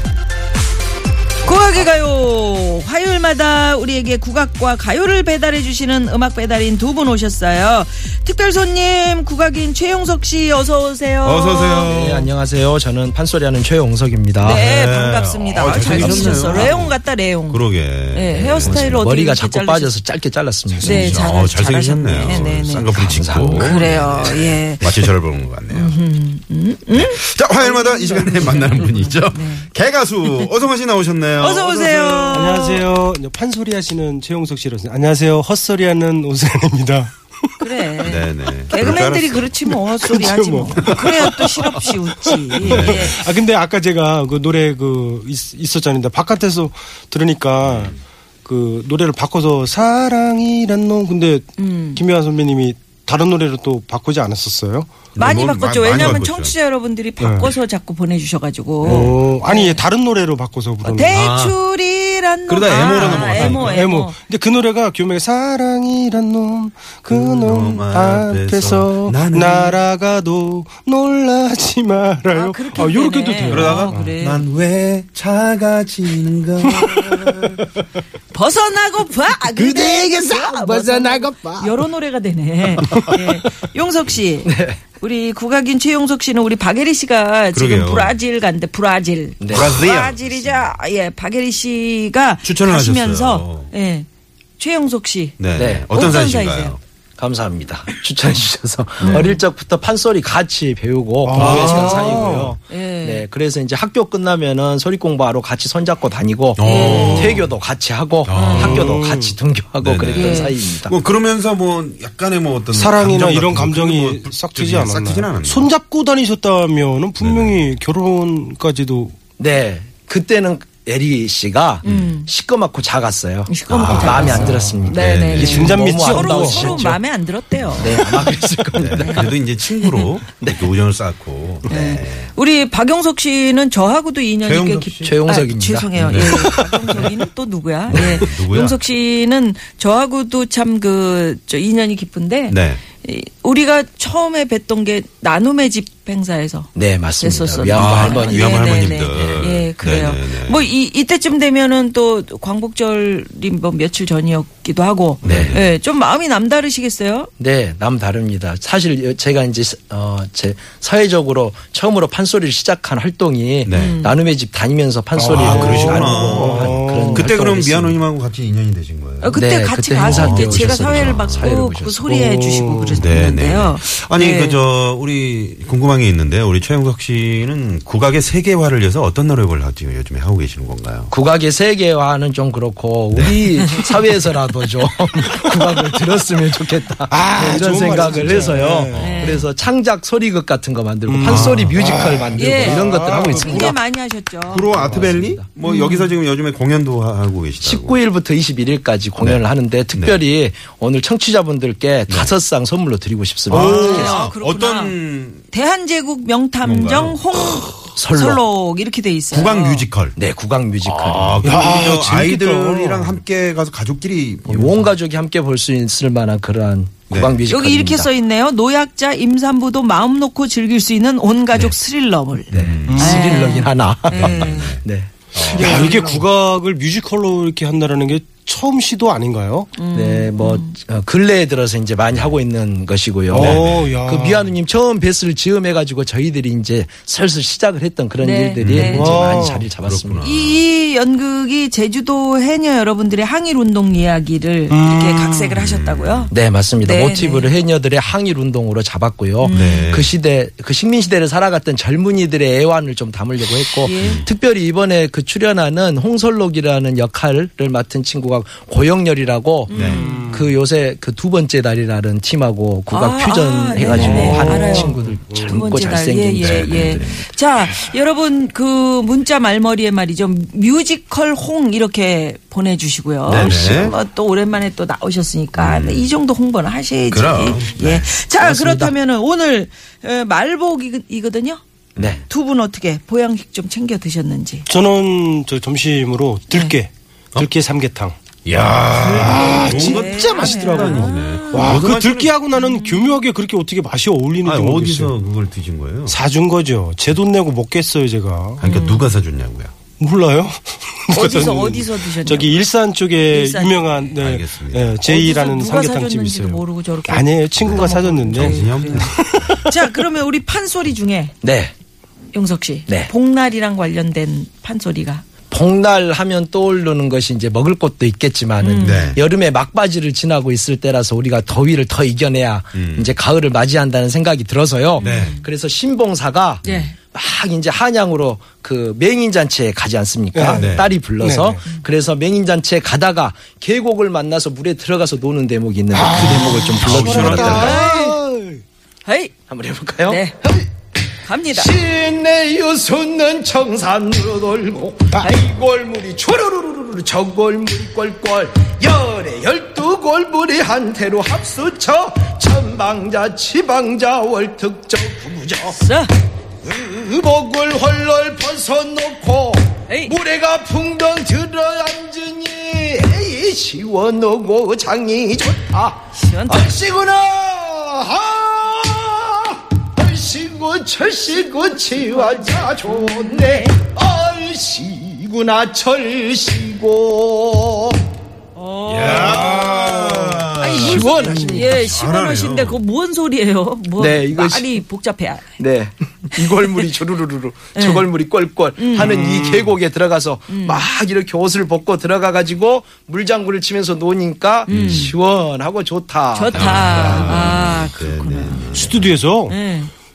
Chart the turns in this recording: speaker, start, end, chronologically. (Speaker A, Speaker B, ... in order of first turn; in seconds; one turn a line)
Speaker A: 1.4-12.0
Speaker B: 11.2-12.3
Speaker C: 11.9-14.7
Speaker A: 14.4-19.9
Speaker B: 14.4-19.0
Speaker C: 15.7-16.7
Speaker C: 18.6-21.3
Speaker A: 20.8-24.9
Speaker B: 20.8-26.0
Speaker C: 22.9-24.3
Speaker A: 25.7-29.7
Speaker B: 26.9-32.5
Speaker A: 31.4-32.8
Speaker D: 32.3-37.1
Speaker A: 37.6-43.2
Speaker B: 38.0-39.5
Speaker D: 40.0-54.9
Speaker B: 42.6-43.1
Speaker B: 47.6-48.0
Speaker A: 51.6-52.0
Speaker B: 55.1-56.5
Speaker A: 55.2-59.8
Speaker D: 57.2-57.5
Speaker B: 58.8-59.2
Speaker D: 58.8-61.2
Speaker A: 60.9-64.2
Speaker B: 61.0-61.6
Speaker B: 62.5-63.8
Speaker D: 62.9-74.1
Speaker B: 67.1-69.8
Speaker A: 72.3-74.5
Speaker B: 73.5-77.6
Speaker D: 76.8-77.1
Speaker A: 78.3-94.1
Speaker D: 79.6-81.6
Speaker C: 84.5-84.8
Speaker B: 87.5-88.2
Speaker C: 89.4-89.8
Speaker B: 89.5-90.7
Speaker B: 92.4-93.7
Speaker A: 94.6-96.8
Speaker B: 95.4-96.8
Speaker C: 95.6-95.9
Speaker C: 97.2-111.0
Speaker A: 99.0-99.4
Speaker D: 101.2-102.5
Speaker B: 101.3-102.5
Speaker A: 101.4-103.3
Speaker B: 106.6-107.5
Speaker A: 106.6-107.4
Speaker B: 108.3-109.0
Speaker A: 108.3-108.7
Speaker D: 108.4-109.3
Speaker B: 109.8-115.7
Speaker A: 110.1-110.5
Speaker D: 112.7-119.1
Speaker B: 117.2-117.7
Speaker C: 119.4-127.0
Speaker A: 121.8-122.3
Speaker B: 121.8-122.1
Speaker A: 123.5-128.0
Speaker B: 123.7-125.7
Speaker D: 124.2-124.8
Speaker D: 125.3-126.9
Speaker C: 127.8-129.3
Speaker B: 128.7-132.3
Speaker A: 129.0-130.1
Speaker C: 130.4-130.6
Speaker C: 131.7-132.0
Speaker A: 131.7-157.3
Speaker B: 134.4-135.2
Speaker C: 135.0-136.8
Speaker B: 136.0-137.1
Speaker B: 137.9-138.8
Speaker B: 142.5-142.8
Speaker C: 146.8-149.3
Speaker B: 147.7-150.6
Speaker B: 155.2-155.7
Speaker C: 155.2-155.6
Speaker C: 157.4-168.0
Speaker B: 163.7-164.0
Speaker A: 163.7-164.2
Speaker D: 165.2-167.3
Speaker B: 165.3-169.4
Speaker A: 169.2-174.6
Speaker C: 169.3-172.0
Speaker B: 169.9-171.5
Speaker D: 172.1-173.0
Speaker B: 173.0-181.1
Speaker C: 181.1-193.8
Speaker B: 183.1-183.4
Speaker D: 187.1-189.1
Speaker B: 188.0-189.2
Speaker A: 189.0-189.5
Speaker D: 191.1-193.7
Speaker B: 191.2-191.8
Speaker A: 192.3-194.7
Speaker B: 194.5-198.0
Speaker C: 194.7-195.5
Speaker A: 195.6-196.2
Speaker C: 197.6-204.2
Speaker B: 202.1-202.3
Speaker B: 203.5-205.4
Speaker A: 203.5-205.0
Speaker A: 205.5-209.8
Speaker B: 206.6-207.6
Speaker C: 208.0-208.4
Speaker B: 209.3-210.2
Speaker C: 210.2-211.6
Speaker B: 210.8-214.9
Speaker D: 211.4-213.2
Speaker C: 214.5-218.1
Speaker B: 217.1-217.4
Speaker A: 217.5-224.8
Speaker B: 222.5-223.1
Speaker C: 222.5-225.9
Speaker D: 222.9-223.3
Speaker B: 224.2-224.8
Speaker B: 225.3-226.3
Speaker D: 225.4-229.7
Speaker A: 229.8-230.8
Speaker C: 229.9-240.3
Speaker D: 233.3-234.5
Speaker B: 233.3-234.0
Speaker A: 238.2-239.2
Speaker B: 238.6-240.6
Speaker D: 238.9-239.7
Speaker A: 240.2-247.5
Speaker D: 244.7-245.5
Speaker B: 245.6-246.3
Speaker C: 246.3-267.2
Speaker A: 249.4-249.9
Speaker B: 249.5-250.1
Speaker A: 253.8-254.2
Speaker B: 254.0-254.3
Speaker A: 259.7-260.4
Speaker B: 259.7-260.0
Speaker D: 259.9-260.5
Speaker A: 262.9-281.6
Speaker D: 263.8-265.6
Speaker B: 266.4-267.2
Speaker B: 273.2-274.0
Speaker C: 273.4-273.7
Speaker B: 275.6-276.1
Speaker B: 277.1-278.1
Speaker C: 278.4-278.9
Speaker B: 282.0-282.2
Speaker C: 282.0-282.2
Speaker A: 282.3-284.6
Speaker D: 284.7-288.1
Speaker B: 288.4-292.3
Speaker D: 288.9-295.1
Speaker A: 289.1-291.9
Speaker A: 292.5-293.2
Speaker B: 294.4-296.2
Speaker D: 296.1-298.6
Speaker B: 298.6-299.7
Speaker A: 298.6-299.1
Speaker D: 300.0-309.8
Speaker A: 301.1-302.6
Speaker A: 303.3-304.1
Speaker B: 304.1-305.0
Speaker A: 305.0-311.3
Speaker B: 307.6-309.6
Speaker C: 311.4-311.7
Speaker A: 312.3-315.2
Speaker C: 315.5-337.8
Speaker A: 318.6-319.2
Speaker B: 318.8-319.2
Speaker B: 322.7-323.1
Speaker A: 325.0-325.4
Speaker B: 325.0-325.4
Speaker A: 326.6-326.9
Speaker D: 330.3-331.6
Speaker B: 330.5-330.9
Speaker D: 335.9-338.6
Speaker B: 336.8-337.8
Speaker A: 337.4-338.2
Speaker A: 339.1-339.3
Speaker C: 339.5-340.7
Speaker A: 340.1-340.4
Speaker A: 341.2-341.7
Speaker C: 341.5-355.8
Speaker A: 355.7-356.1
Speaker C: 356.6-378.0
Speaker A: 359.9-360.1
Speaker A: 366.1-366.7
Speaker A: 371.5-373.8
Speaker A: 378.5-385.5
Speaker B: 378.9-382.8
Speaker D: 379.1-380.1
Speaker C: 380.5-381.7
Speaker C: 384.0-384.7
Speaker C: 385.6-397.5
Speaker A: 386.4-386.9
Speaker A: 387.8-388.1
Speaker A: 388.8-389.2
Speaker D: 388.9-389.7
Speaker A: 390.5-390.8
Speaker A: 394.7-395.1
Speaker B: 394.7-395.1
Speaker A: 396.3-398.7
Speaker B: 396.5-399.1
Speaker D: 398.7-399.6
Speaker A: 399.5-399.9